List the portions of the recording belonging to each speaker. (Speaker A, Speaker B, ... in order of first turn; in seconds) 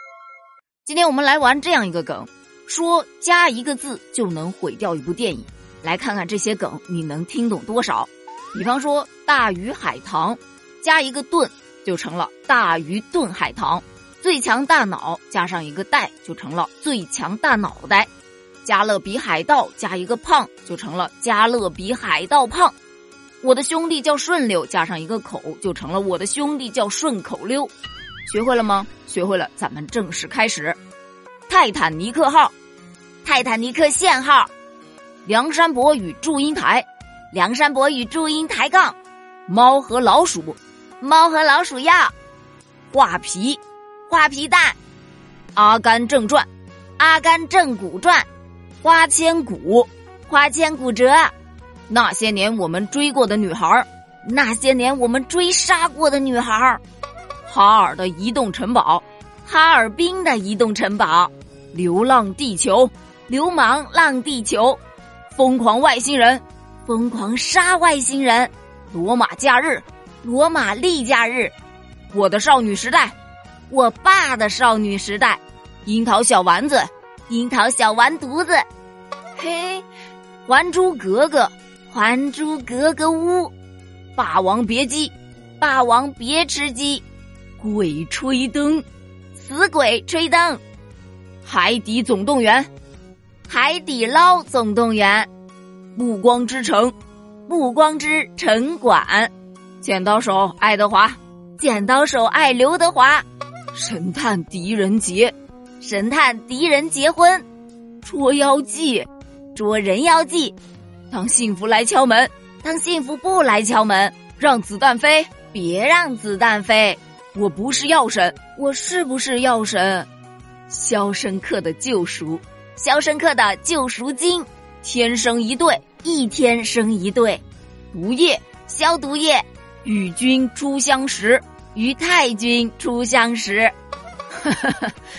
Speaker A: 0.8-18.1, 18.6-22.7, 23.4-27.7, 28.3-30.8, 31.5-32.5, 33.2-34.5, 35.2-42.1, 42.9-44.8, 45.5-48.3, 48.8-51.3, 51.9-56.8, 57.5-64.8, 65.3-71.5, 72.1-73.1, 73.7-78.6, 79.4-79.8, 80.5-83.5, 84.2-87.0, 87.6-90.6, 91.4-92.7, 93.5-95.3, 95.9-96.9, 97.5-107.4, 108.0-110.5, 111.1-120.1, 120.7-133.7, 134.3-134.9